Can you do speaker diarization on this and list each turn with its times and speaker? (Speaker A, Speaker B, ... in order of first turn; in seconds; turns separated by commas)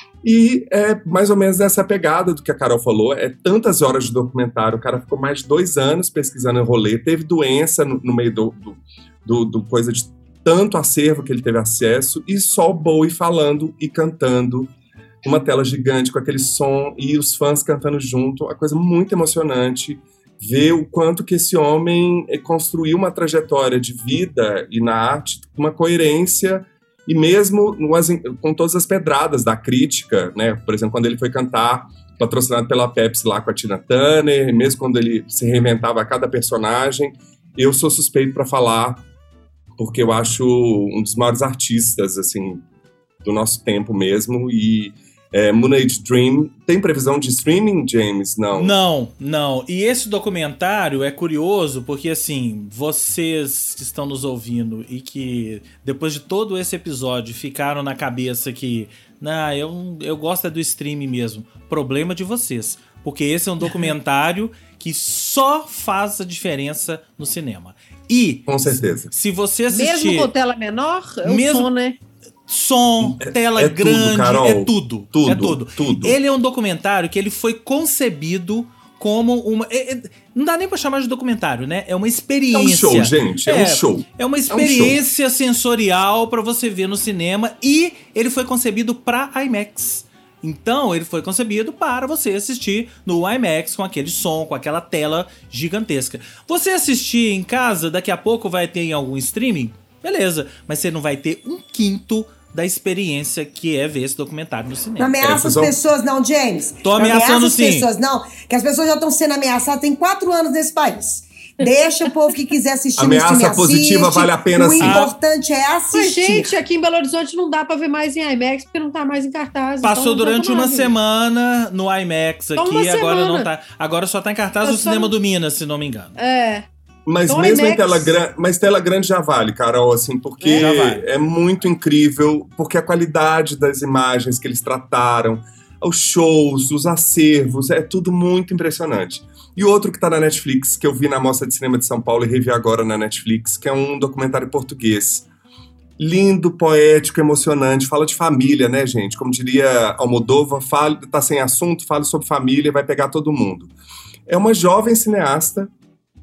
Speaker A: 0.2-14.7, Speaker A: 15.2-39.0, Speaker A: 39.8-42.6, Speaker A: 43.2-48.7, Speaker B: 48.5-70.3, Speaker A: 68.5-69.1, Speaker C: 69.7-72.0, Speaker B: 71.2-71.7, Speaker B: 72.5-105.2, Speaker A: 73.0-76.2, Speaker A: 82.5-85.0, Speaker D: 105.0-116.5, Speaker A: 105.2-105.8, Speaker B: 106.8-107.9, Speaker A: 113.0-115.1, Speaker B: 114.8-115.1, Speaker C: 115.9-120.9, Speaker B: 119.8-126.2, Speaker C: 122.6-123.5, Speaker C: 124.6-125.1, Speaker C: 126.2-126.7, Speaker A: 127.0-145.3, Speaker C: 127.3-128.2, Speaker C: 130.4-130.7, Speaker B: 130.5-131.0, Speaker A: 146.0-153.7, Speaker A: 154.3-155.7